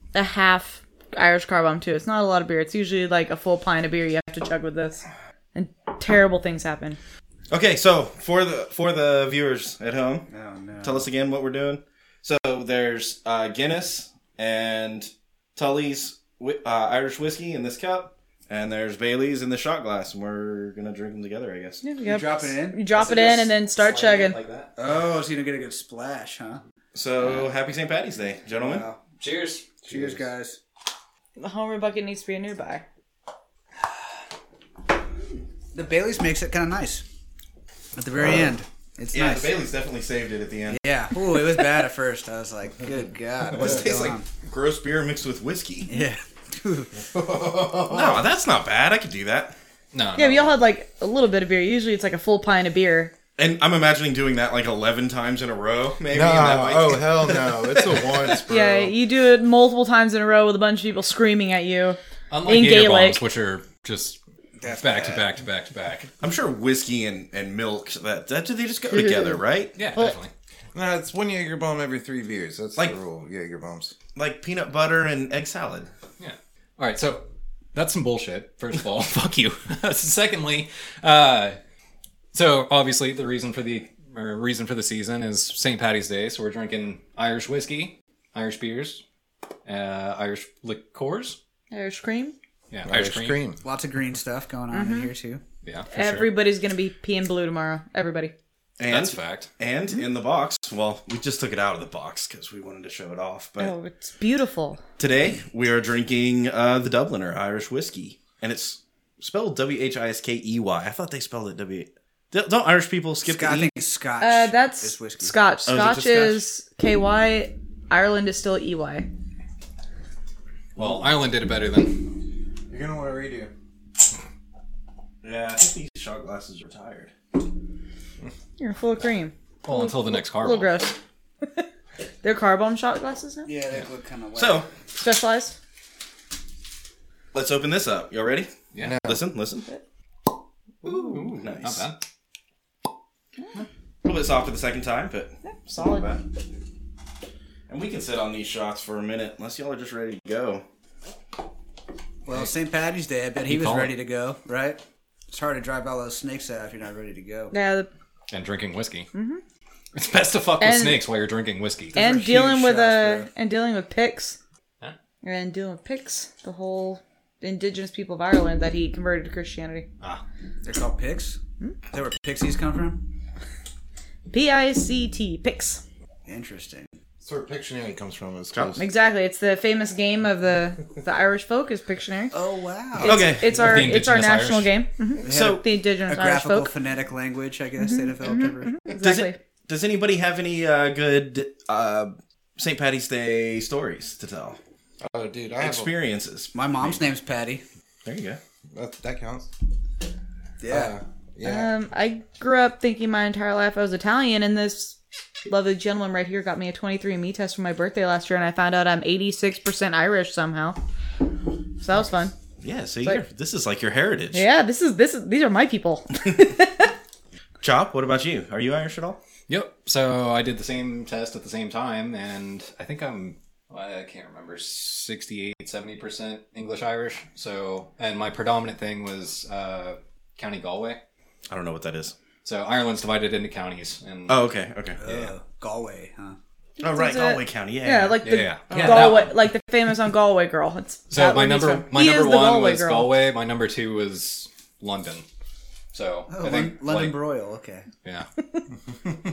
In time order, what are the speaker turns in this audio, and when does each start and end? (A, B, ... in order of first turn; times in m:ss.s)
0:00.1-0:07.0 A
0:07.5-0:10.3 B
0:10.3-0:11.1 C
0:10.8-0:21.8 B
0:21.8-0:24.4 A
0:22.0-0:23.3 C
0:22.9-0:24.7 D
0:24.8-0:26.6 C
0:26.9-0:28.8 B
0:27.2-0:27.5 C
0:28.5-0:29.0 C
0:29.2-0:29.7 D
0:29.8-0:30.2 E
0:29.9-0:30.6 C
0:31.4-0:32.8 A
0:35.7-0:37.0 C
0:38.0-0:39.5 C
0:38.2-0:38.5 E
0:39.1-0:40.8 B
0:40.7-0:44.2 C
0:43.6-0:45.9 B
0:45.9-0:46.9 C
0:47.1-0:48.3 E
0:47.9-0:49.6 B
0:49.9-0:50.6 D
0:50.2-0:53.1 A
0:53.4-0:57.3 B
0:56.1-0:58.9 E
0:58.5-1:03.2 A
1:02.3-1:06.1 D
1:04.6-1:05.3 C
1:06.2-1:09.8 B
1:08.9-1:09.4 A
1:09.8-1:10.3 D
1:10.7-1:13.9 E
1:14.1-1:15.9 B
1:16.2-1:21.6 D
1:22.3-1:29.0 D
1:29.6-1:31.4 D
1:31.7-1:32.3 A
1:32.7-1:33.4 D
1:32.8-1:33.6 E
1:33.6-1:35.4 C
1:34.7-1:35.1 A
1:35.6-1:36.3 D
1:35.9-1:38.3 A
1:38.8-1:43.7 B
1:38.8-1:39.5 D
1:43.6-1:44.8 A
1:45.0-1:53.8 B
1:53.2-1:55.4 C
1:54.2-1:59.1 A
1:55.6-1:56.4 B
2:00.8-2:02.1 D
2:02.7-2:03.5 E
2:05.2-2:07.1 B
2:08.6-2:11.6 A
2:09.6-2:10.8 D
2:12.2-2:13.5 A
2:13.4-2:14.6 C
2:14.3-2:14.6 B
2:14.9-2:15.6 A
2:17.3-2:19.7 B
2:18.7-2:19.0 D
2:18.8-2:19.2 E
2:20.8-2:21.3 A
2:20.8-2:22.0 D
2:21.2-2:21.8 B
2:24.0-2:26.2 B
2:25.4-2:26.1 A
2:27.7-2:30.6 B
2:32.2-2:37.5 C
2:33.4-2:33.9 D
2:37.5-2:37.9 A
2:38.3-2:39.1 D
2:39.1-2:39.4 A
2:39.9-2:42.0 D
2:40.6-2:41.0 A
2:41.9-2:43.3 C
2:41.9-2:44.4 A
2:45.2-2:49.9 A
2:50.6-2:51.4 C
2:51.9-2:53.0 C
2:54.3-2:55.8 A
2:56.2-2:56.9 C
2:57.2-2:58.8 E
2:58.5-2:58.8 B
2:58.8-3:02.3 A
3:02.3-3:03.3 C
3:03.0-3:06.7 A
3:03.0-3:03.8 B
3:03.5-3:04.7 D
3:05.2-3:08.8 C
3:05.2-3:05.6 B
3:07.8-3:09.4 A
3:09.0-3:14.6 B
3:15.0-3:15.9 E
3:15.6-3:16.9 B
3:16.5-3:17.6 C
3:18.0-3:18.4 B
3:18.7-3:19.5 E
3:20.6-3:20.9 C
3:20.7-3:21.7 E
3:21.4-3:25.0 A
3:25.5-3:30.8 A
3:31.8-3:32.3 A
3:32.6-3:34.4 B
3:34.3-3:36.9 A
3:37.6-3:39.2 B
3:39.5-3:51.0 D
3:51.5-3:52.1 B
3:52.4-3:54.4 D
3:54.3-3:55.3 B
3:55.0-3:56.4 C
3:56.8-4:03.1 A
3:56.8-3:58.2 B
3:58.2-3:59.5 D
3:58.8-3:59.1 C
4:01.1-4:05.2 D
4:05.9-4:07.2 D
4:06.3-4:07.9 C